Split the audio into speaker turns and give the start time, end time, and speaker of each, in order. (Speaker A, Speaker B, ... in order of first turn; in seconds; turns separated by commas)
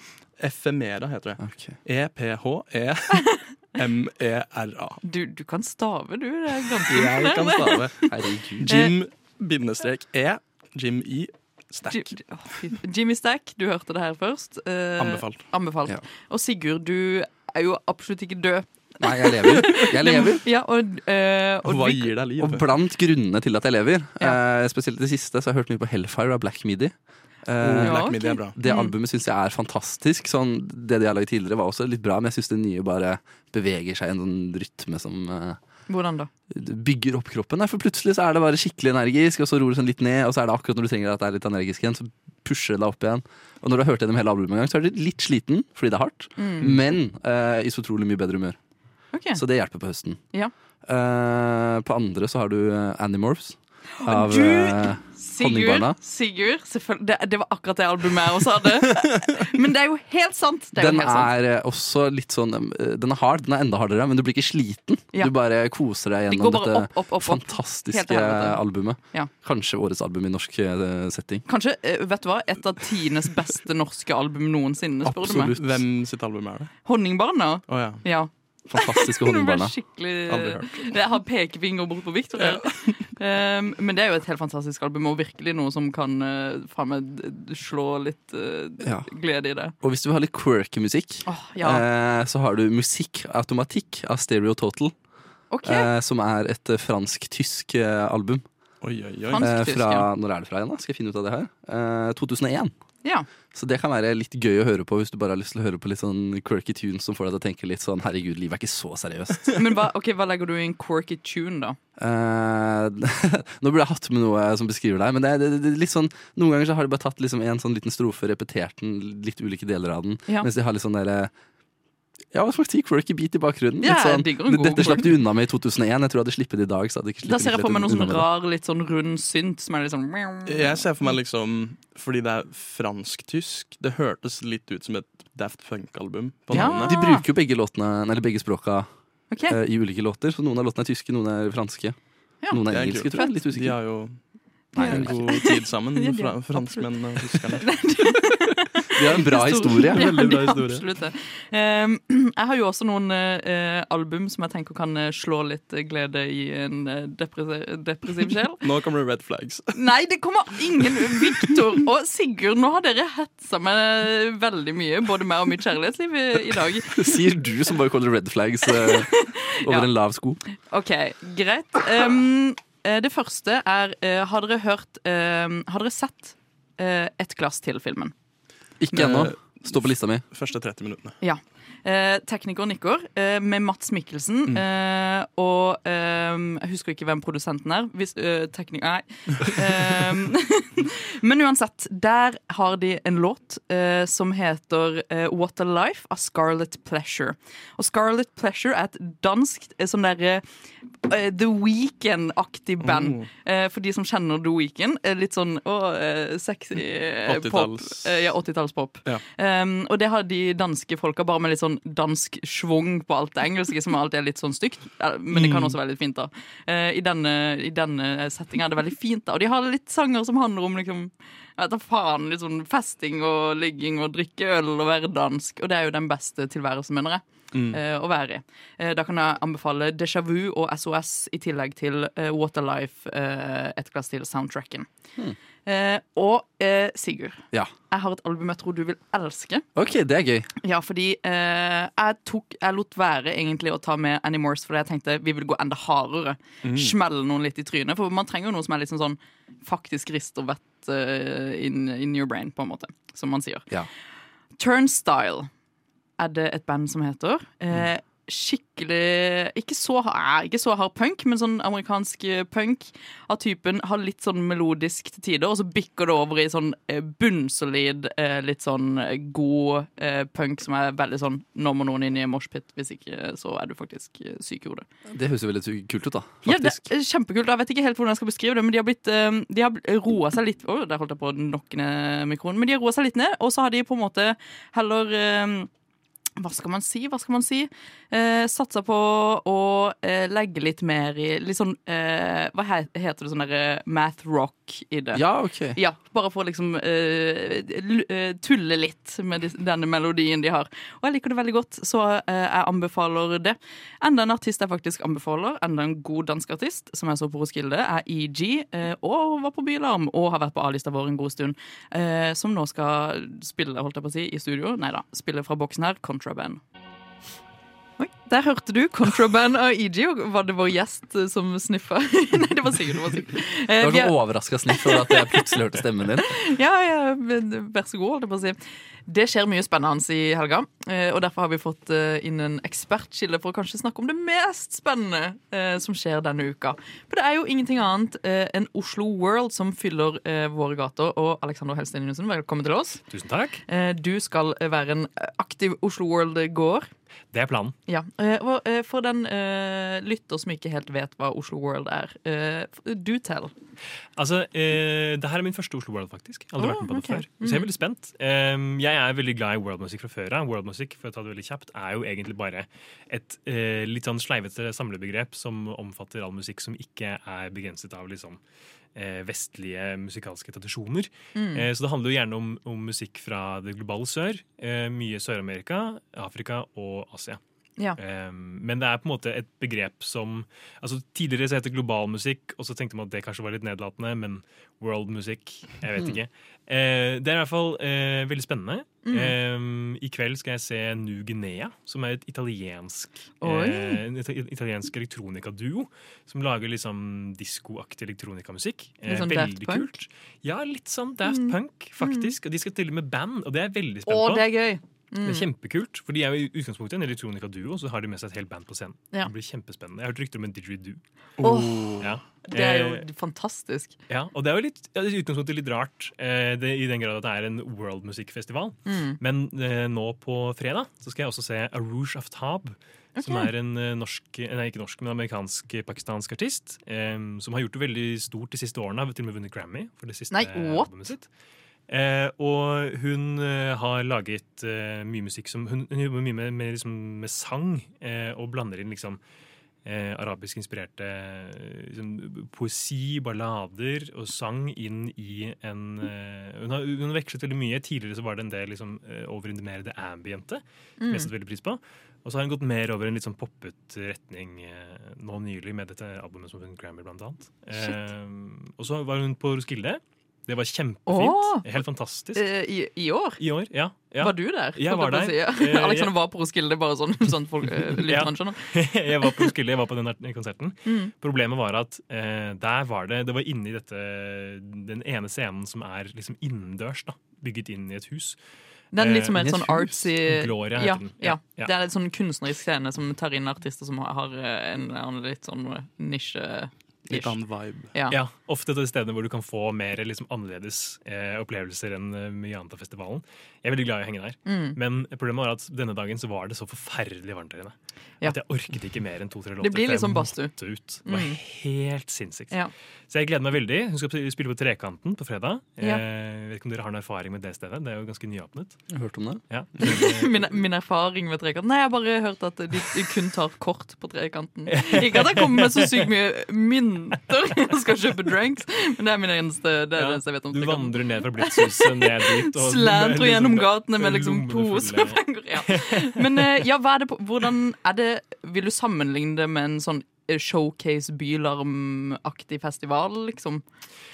Speaker A: 0.4-5.0, Speaker B: 1.4-1.8, Speaker C: 5.0-8.1, Speaker A: 6.9-12.2, Speaker B: 8.1-8.8, Speaker C: 8.7-8.9, Speaker C: 11.9-22.1, Speaker A: 15.0-15.5, Speaker B: 19.0-20.4, Speaker A: 21.6-22.7, Speaker B: 22.4-26.9, Speaker B: 27.5-35.6, Speaker A: 27.6-28.6, Speaker C: 27.8-28.9, Speaker C: 35.9-36.3, Speaker B: 36.5-48.6, Speaker C: 46.4-46.7, Speaker C: 49.1-49.4, Speaker B: 49.3-50.2, Speaker B: 50.9-56.0, Speaker C: 54.0-61.3, Speaker B: 60.8-71.4, Speaker C: 66.3-68.6, Speaker C: 71.5-75.5, Speaker B: 75.0-75.8, Speaker A: 75.5-76.7, Speaker C: 76.9-89.7, Speaker A: 77.7-78.0, Speaker B: 78.7-79.8, Speaker A: 80.3-81.0, Speaker A: 82.4-83.1, Speaker B: 89.8-94.9, Speaker C: 91.2-91.8, Speaker C: 95.5-95.9, Speaker B: 95.6-98.5, Speaker A: 98.8-99.4, Speaker C: 99.3-100.1, Speaker B: 99.4-102.7, Speaker B: 103.5-109.6, Speaker C: 109.6-111.8, Speaker B: 112.0-121.3, Speaker B: 122.3-128.3, Speaker C: 123.8-125.2, Speaker C: 127.2-130.8, Speaker A: 130.5-137.0, Speaker B: 136.5-138.9, Speaker C: 136.5-137.2, Speaker C: 139.3-139.6, Speaker B: 139.5-142.0, Speaker C: 142.4-143.3, Speaker B: 142.5-143.8, Speaker A: 142.7-144.2, Speaker B: 144.8-145.3, Speaker C: 144.8-158.6, Speaker A: 144.8-147.7, Speaker B: 148.9-150.1, Speaker A: 149.9-150.8, Speaker A: 158.6-159.8, Speaker C: 159.7-167.1, Speaker A: 160.9-161.5, Speaker B: 166.9-170.4, Speaker C: 168.7-169.9, Speaker C: 170.7-178.1, Speaker B: 178.8-180.2, Speaker A: 178.9-181.2, Speaker C: 181.2-200.4, Speaker C: 201.1-234.9, Speaker A: 202.8-203.3, Speaker A: 207.3-208.3, Speaker A: 215.3-215.8, Speaker A: 227.5-227.8, Speaker C: 235.7-239.7, Speaker B: 239.8-240.5, Speaker C: 240.6-253.7, Speaker A: 246.6-246.9, Speaker C: 254.6-255.5, Speaker C: 256.2-274.9, Speaker B: 275.1-276.9, Speaker C: 276.5-285.7, Speaker C: 286.4-295.2, Speaker B: 295.1-295.8, Speaker C: 295.8-316.6, Speaker C: 318.0-324.2, Speaker B: 323.8-326.4, Speaker C: 324.7-325.5, Speaker C: 326.2-343.0, Speaker D: 343.1-343.6, Speaker C: 343.7-346.9, Speaker D: 347.3-347.8, Speaker C: 347.9-353.5, Speaker D: 354.2-368.4, Speaker C: 356.6-357.7, Speaker D: 368.9-377.4, Speaker C: 371.4-371.6, Speaker D: 378.0-404.5, Speaker C: 389.1-389.4, Speaker C: 393.4-394.0, Speaker C: 399.1-399.9, Speaker C: 401.2-402.3, Speaker C: 404.1-405.5, Speaker D: 405.2-411.0, Speaker A: 411.4-412.2, Speaker C: 411.4-414.0, Speaker D: 412.0-413.1, Speaker D: 414.1-431.3, Speaker C: 418.9-419.2, Speaker C: 423.2-423.5, Speaker C: 430.3-430.9, Speaker D: 431.9-439.2, Speaker D: 439.9-462.5, Speaker C: 451.0-451.3, Speaker C: 461.1-461.7, Speaker C: 462.4-463.4, Speaker D: 463.4-466.1, Speaker C: 464.2-468.6, Speaker D: 467.9-478.4, Speaker C: 470.9-471.1, Speaker C: 478.9-487.4, Speaker D: 478.9-481.7, Speaker A: 487.1-487.9, Speaker C: 487.9-488.2, Speaker D: 488.1-508.8, Speaker C: 494.5-494.8, Speaker C: 499.6-501.4, Speaker B: 508.9-509.4, Speaker D: 509.5-510.5, Speaker C: 509.8-533.6, Speaker D: 514.7-516.1, Speaker D: 520.0-526.6